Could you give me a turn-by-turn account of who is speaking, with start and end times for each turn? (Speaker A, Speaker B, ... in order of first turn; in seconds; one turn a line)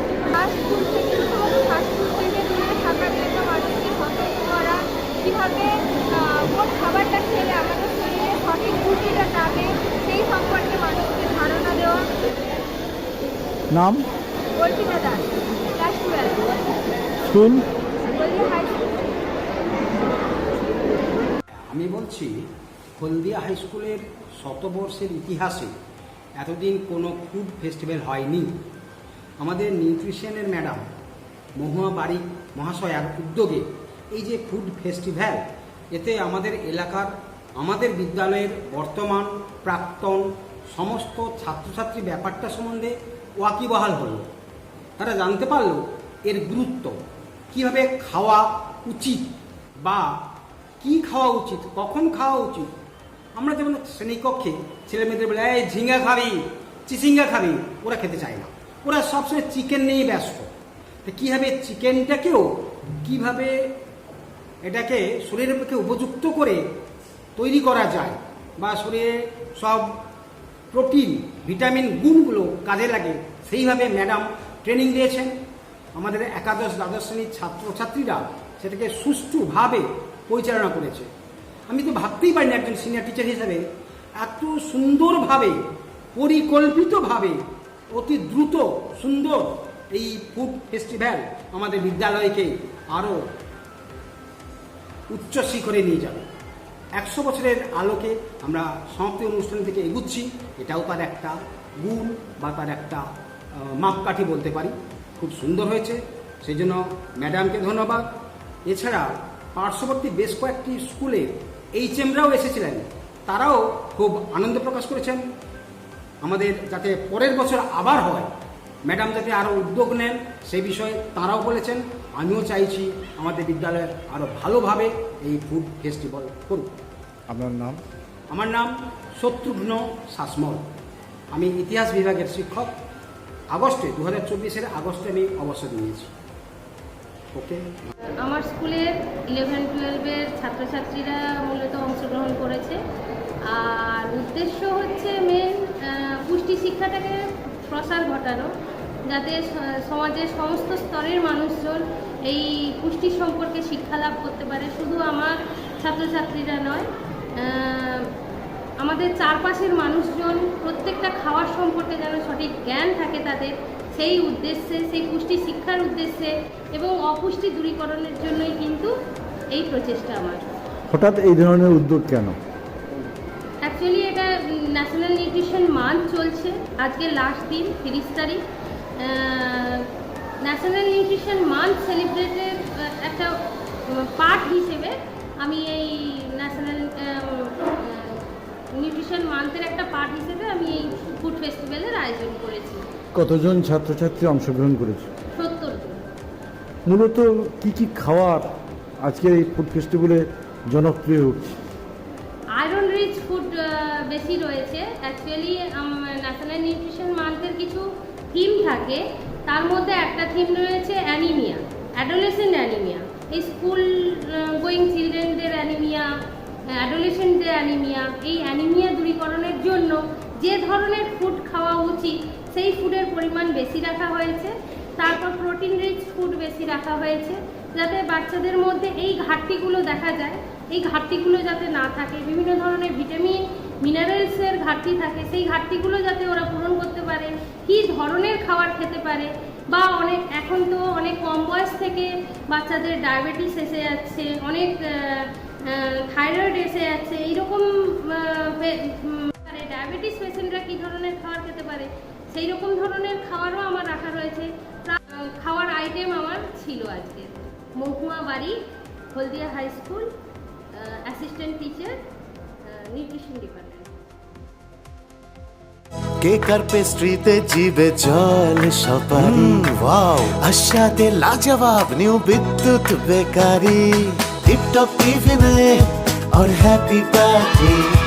Speaker A: 0.2-12.1
Speaker B: 13.7-14.1
Speaker A: 14.6-16.8
Speaker B: 17.3-17.6
Speaker A: 17.8-19.2
Speaker C: 21.7-25.7
Speaker C: 26.4-28.6
Speaker C: 29.4-30.9
Speaker C: 31.6-44.3
Speaker C: 45.0-47.0
Speaker C: 47.5-50.1
Speaker C: 50.8-52.7
Speaker C: 53.4-60.5
Speaker C: 61.0-63.7
Speaker C: 64.6-66.6
Speaker C: 67.3-70.0
Speaker C: 70.7-75.3
Speaker C: 75.9-81.1
Speaker C: 81.7-83.6
Speaker C: 84.2-87.4
Speaker C: 87.9-93.2
Speaker C: 95.1-96.3
Speaker C: 97.0-108.1
Speaker C: 108.7-115.2
Speaker C: 116.2-118.3
Speaker C: 118.8-126.7
Speaker B: 127.3-127.8
Speaker C: 128.3-130.7
Speaker C: 131.3-132.8
Speaker C: 133.5-136.1
Speaker C: 137.3-137.8
Speaker D: 138.2-142.8
Speaker D: 143.5-148.5
Speaker D: 149.1-158.1
Speaker D: 158.8-168.9
Speaker D: 169.5-170.6
Speaker B: 170.9-172.4
Speaker D: 173.6-178.4
Speaker D: 179.0-179.9
Speaker D: 180.4-192.8
Speaker B: 193.2-195.1
Speaker D: 195.4-196.0
Speaker B: 196.8-201.6
Speaker D: 202.6-216.1
Speaker D: 216.7-258.6
Speaker D: 259.1-260.1
Speaker D: 260.7-262.0
Speaker D: 262.6-263.9
Speaker E: 266.2-277.8